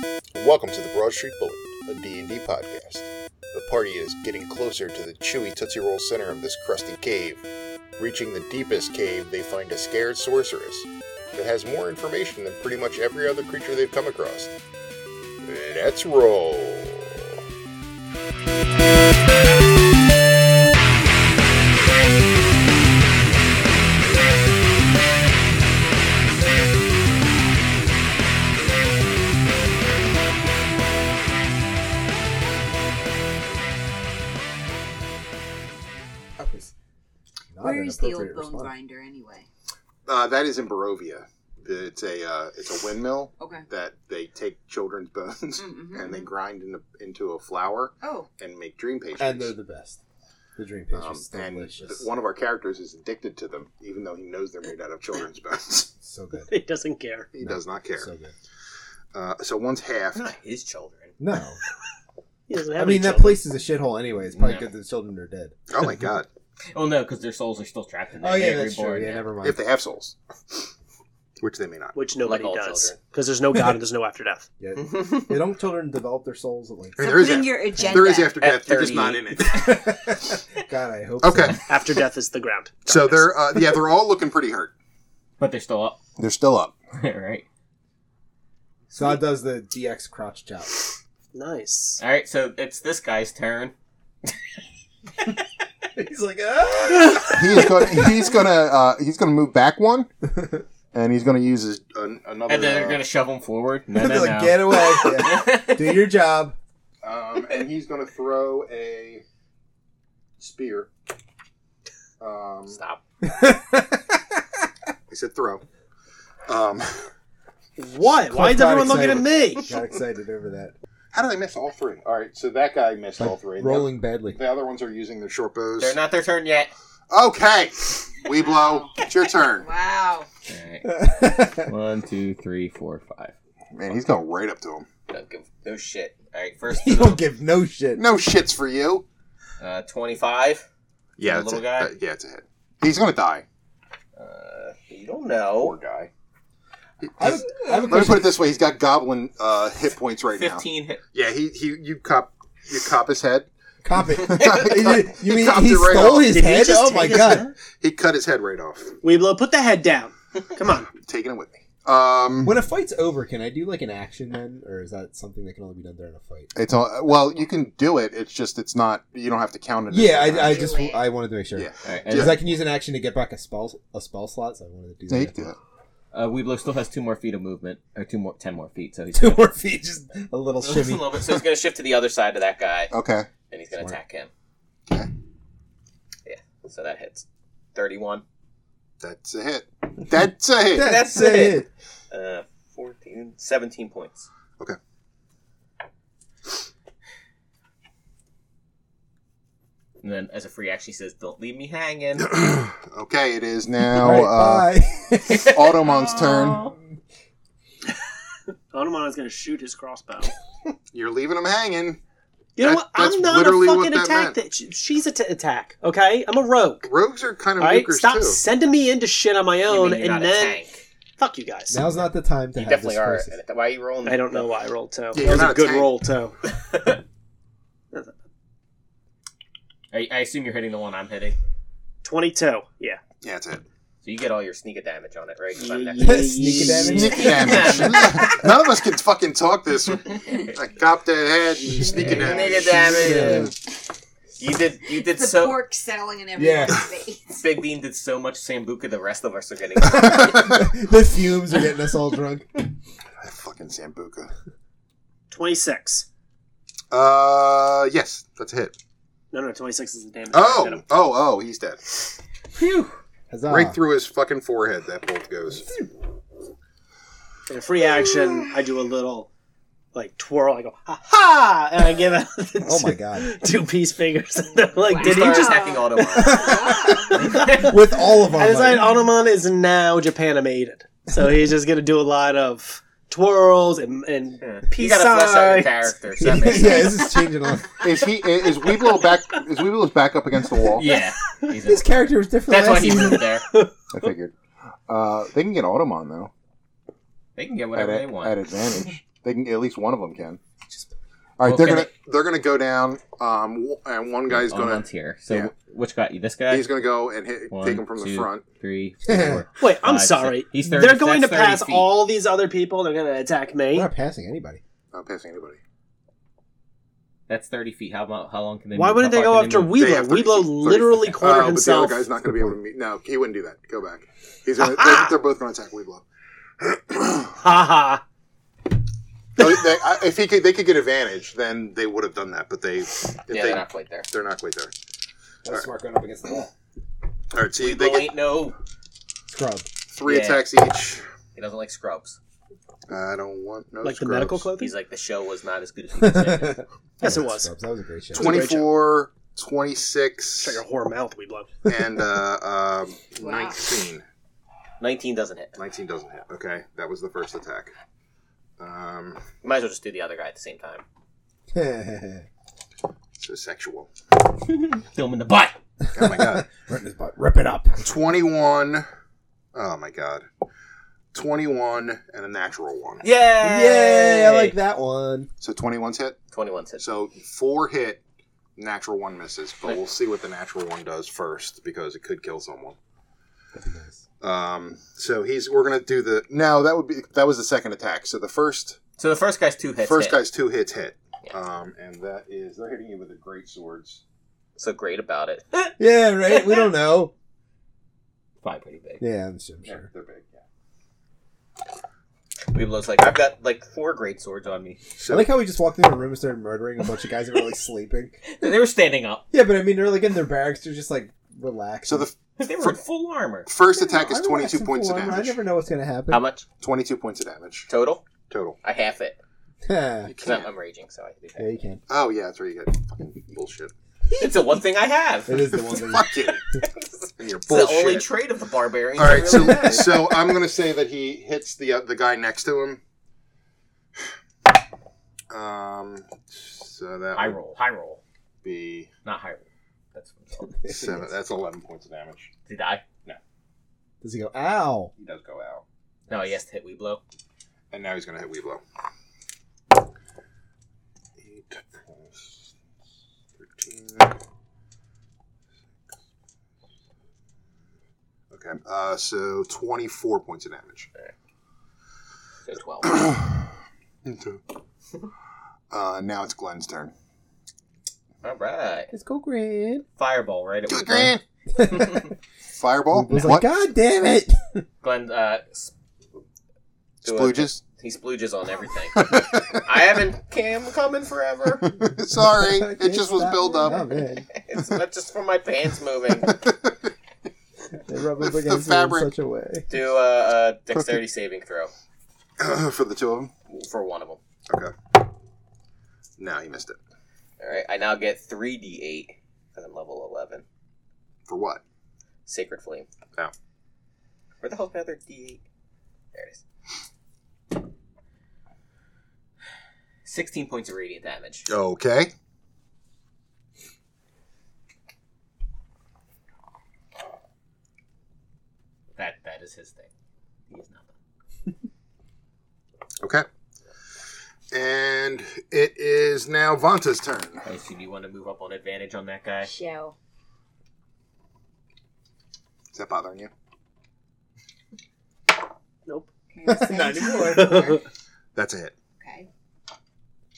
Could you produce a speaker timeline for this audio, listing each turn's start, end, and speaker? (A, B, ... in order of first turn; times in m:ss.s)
0:00.4-0:07.4 A
0:08.0-0:14.5 A
0:15.4-0:17.3 A
0:36.4-0:36.7 B
0:37.5-0:38.7 B
0:37.6-0:39.5 C
0:40.0-0:49.5 A
0:43.4-0:43.7 C
0:45.6-0:46.3 C
0:48.0-0:48.3 C
0:49.2-0:50.0 B
0:50.6-0:52.1 B
0:50.9-0:55.9 A
0:56.0-0:56.5 B
0:56.5-0:57.3 D
0:57.3-0:58.1 A
0:57.4-0:58.3 B
0:59.1-1:00.3 A
1:00.1-1:01.1 E
1:01.2-1:01.6 B
1:02.5-1:03.4 D
1:02.8-1:05.6 B
1:04.3-1:04.7 E
1:05.7-1:06.3 A
1:06.7-1:09.3 E
1:08.2-1:09.6 B
1:09.4-1:10.7 A
1:11.4-1:12.0 A
1:11.9-1:14.5 D
1:12.2-1:13.0 E
1:14.6-1:18.0 B
1:14.8-1:15.3 E
1:17.0-1:18.4 C
1:17.0-1:19.8 A
1:18.4-1:19.8 E
1:19.4-1:21.6 B
1:21.2-1:21.6 A
1:21.7-1:23.7 D
1:22.9-1:24.7 A
1:25.4-1:26.0 E
1:26.2-1:26.8 A
1:26.9-1:27.4 E
1:28.9-1:30.7 B
1:31.3-1:32.0 D
1:32.0-1:33.7 E
1:35.9-1:38.2 B
1:37.2-1:40.1 A
1:40.9-1:43.0 A
1:42.5-1:46.1 E
1:43.9-1:46.6 B
1:47.0-1:49.2 A
1:50.4-1:50.9 A
1:52.2-1:52.8 A
1:52.7-1:53.0 E
1:53.2-1:54.4 B
1:55.1-1:55.6 A
1:56.5-1:57.1 A
1:57.8-1:59.7 D
1:58.3-2:00.8 B
2:01.1-2:06.0 A
2:03.2-2:04.4 B
2:05.8-2:06.7 E
2:07.1-2:09.7 A
2:08.3-2:10.3 C
2:10.5-2:13.3 E
2:10.8-2:11.7 B
2:13.7-2:14.9 A
2:15.1-2:17.2 E
2:16.8-2:18.1 B
2:18.0-2:19.0 A
2:19.6-2:20.7 E
2:21.2-2:23.4 A
2:21.2-2:21.9 E
2:24.2-2:25.8 E
2:25.6-2:26.1 A
2:27.0-2:33.5 A
2:27.2-2:28.4 B
2:30.3-2:31.0 E
2:33.8-2:37.4 B
2:34.1-2:38.9 A
2:36.2-2:37.5 D
2:39.0-2:40.9 D
2:40.9-2:42.6 A
2:42.4-2:46.5 B
2:46.5-2:50.7 A
2:49.9-2:55.5 B
2:50.3-2:51.1 C
2:51.5-2:52.4 A
2:51.8-2:52.4 E
2:55.1-2:55.6 A
2:56.1-2:59.5 E
2:59.1-3:01.4 B
3:00.6-3:02.9 E
3:02.9-3:03.3 A
3:03.5-3:04.3 E
3:06.2-3:08.2 E
3:09.0-3:11.0 A
3:10.7-3:11.7 B
3:10.8-3:14.3 E
3:20.0-3:22.3 E
3:22.2-3:24.7 A
3:23.8-3:25.6 B
3:25.2-3:26.8 E
3:25.3-3:26.6 A
3:28.7-3:30.3 D
3:30.9-3:32.0 A
3:32.6-3:36.9 D
3:32.6-3:34.4 A
3:36.8-3:38.4 A
3:37.6-3:40.6 D
3:39.7-3:40.8 E
3:41.2-3:41.8 D
3:41.7-3:43.3 B
3:42.6-3:44.5 E
3:44.1-3:46.4 D
3:45.1-3:45.9 A
3:46.5-3:47.0 E
3:49.9-3:51.4 E
3:52.0-3:53.0 D
3:53.2-3:53.6 A
3:54.0-3:58.4 E
3:55.5-3:57.3 D
3:56.0-3:58.4 B
3:56.9-4:03.5 A
4:01.7-4:03.5 B
4:01.9-4:03.5 E
4:04.4-4:05.6 E
4:04.9-4:07.4 C
4:06.4-4:06.8 B
4:07.3-4:10.5 E
4:09.9-4:12.5 B
4:09.9-4:10.7 A
4:13.2-4:14.3 A
4:15.3-4:16.1 D
4:16.9-4:18.7 A
4:19.3-4:20.8 D
4:20.3-4:21.9 A
4:22.6-4:22.9 E
4:23.3-4:23.8 B
4:23.5-4:25.7 A
4:27.5-4:29.3 D
4:29.9-4:45.9 D
4:32.6-4:33.3 B
4:34.9-4:37.4 C
4:34.9-4:37.7 E
4:36.2-4:39.0 B
4:44.4-4:47.1 E
4:46.2-4:47.8 B
4:47.8-4:50.9 A
4:48.6-4:48.9 D
4:50.7-4:53.4 E
4:51.6-4:53.3 B
4:53.9-4:54.3 A
4:54.9-4:56.3 A
4:57.4-4:58.4 E
4:57.8-5:00.4 A
5:01.4-5:05.5 A
5:01.4-5:01.9 E
5:04.3-5:06.7 E
5:06.5-5:08.4 A
5:07.5-5:11.9 E
5:09.1-5:09.4 B
5:09.6-5:13.9 D
5:13.7-5:14.6 B
5:14.9-5:15.6 A
5:17.3-5:19.8 E
5:18.7-5:22.0 D
5:19.7-5:26.0 A
5:22.2-5:22.6 B
5:24.6-5:25.1 D
5:26.6-5:27.3 A
5:27.4-5:28.0 D
5:29.4-5:34.7 A
5:29.4-5:29.7 D
5:33.3-5:34.1 E
5:35.4-5:36.5 B
5:37.3-5:38.2 A
5:37.6-5:38.6 E
5:39.3-5:39.7 B
5:39.9-5:41.0 A
5:40.0-5:40.5 E
5:41.3-5:42.2 E
5:42.9-5:44.5 A
5:43.8-5:44.7 D
5:44.6-5:46.6 E
5:46.0-5:48.4 B
5:47.0-5:47.5 D
5:48.1-5:48.8 D
5:48.1-5:50.6 A
5:50.4-5:51.5 D
5:51.6-5:54.0 A
5:53.2-5:53.6 C
5:54.8-5:55.6 E
5:55.6-5:57.7 A
5:58.6-5:59.2 A
5:59.4-6:00.8 E
6:01.5-6:02.2 B
6:03.2-6:03.9 A
6:04.4-6:05.6 E
6:05.8-6:07.8 B
6:05.9-6:06.5 A
6:07.8-6:08.9 A
6:09.5-6:10.3 A
6:11.1-6:13.0 A
6:13.0-6:14.6 E
6:13.4-6:15.3 B
6:15.4-6:16.2 A
6:16.3-6:16.8 E
6:16.8-6:18.0 A
6:18.6-6:22.8 A
6:23.6-6:24.0 B
6:24.2-6:28.8 A
6:29.0-6:30.2 E
6:29.8-6:34.0 A
6:34.6-6:35.7 E
6:35.8-6:37.1 B
6:38.4-6:39.0 E
6:39.0-6:39.9 B
6:39.6-6:40.4 A
6:42.5-6:44.8 E
6:45.0-6:45.3 A
6:45.1-6:48.2 B
6:48.3-6:49.2 E
6:49.3-6:52.1 B
6:51.8-6:52.8 A
6:52.4-6:53.5 E
6:53.5-6:55.4 A
6:53.7-6:56.3 B
6:56.1-6:56.4 E
6:56.6-6:57.7 A
6:57.7-6:58.1 E
6:58.3-6:58.6 A
6:58.6-6:59.2 E
6:59.6-7:00.1 B
7:00.1-7:00.5 A
7:00.2-7:01.5 E
7:01.4-7:01.8 B
7:01.9-7:03.7 A
7:04.2-7:05.6 E
7:05.3-7:06.6 B
7:05.8-7:06.4 A
7:07.2-7:08.1 A
7:07.4-7:10.1 E
7:09.0-7:12.8 A
7:09.2-7:09.8 B
7:15.3-7:17.4 A
7:17.1-7:18.0 E
7:18.4-7:18.9 A
7:19.0-7:20.6 E
7:20.6-7:21.1 B
7:20.7-7:22.3 A
7:22.5-7:22.8 E
7:24.0-7:24.9 B
7:25.0-7:25.6 A
7:26.1-7:27.0 E
7:27.7-7:28.6 A
7:31.2-7:32.5 A
7:33.4-7:34.1 A
7:38.3-7:40.9 A
7:42.5-7:43.0 E
7:42.8-7:43.5 A
7:44.0-7:44.4 A
7:45.7-7:46.9 A
7:48.2-7:48.9 E
7:48.9-7:49.8 B
7:50.0-7:52.0 E
7:50.7-7:51.2 A
7:51.5-7:52.1 B
7:52.5-7:53.4 A
7:52.9-7:54.6 B
7:54.8-7:55.7 E
7:57.0-7:57.6 A
7:57.0-8:01.7 E
7:58.9-7:59.7 A
8:01.6-8:03.9 A
8:02.1-8:04.2 B
8:04.3-8:06.4 E
8:06.2-8:06.9 A
8:07.9-8:09.7 B
8:08.2-8:09.1 A
8:09.7-8:11.7 E
8:12.4-8:13.3 A
8:13.5-8:14.2 E
8:14.5-8:14.7 A
8:16.2-8:16.8 A
8:17.4-8:20.4 E
8:21.3-8:21.6 A
8:22.3-8:22.9 E
8:24.4-8:25.4 E
8:26.1-8:26.4 E
8:30.0-8:31.5 E
8:31.5-8:32.1 A
8:39.0-8:39.9 E
8:40.5-8:41.0 E
8:44.5-8:47.4 A
8:47.4-8:49.5 E
8:49.4-8:50.0 C
8:52.7-8:53.3 A
8:56.3-8:57.8 C
8:56.5-8:57.8 B
8:57.1-8:57.8 D
8:58.4-8:58.7 A
8:59.0-8:59.3 C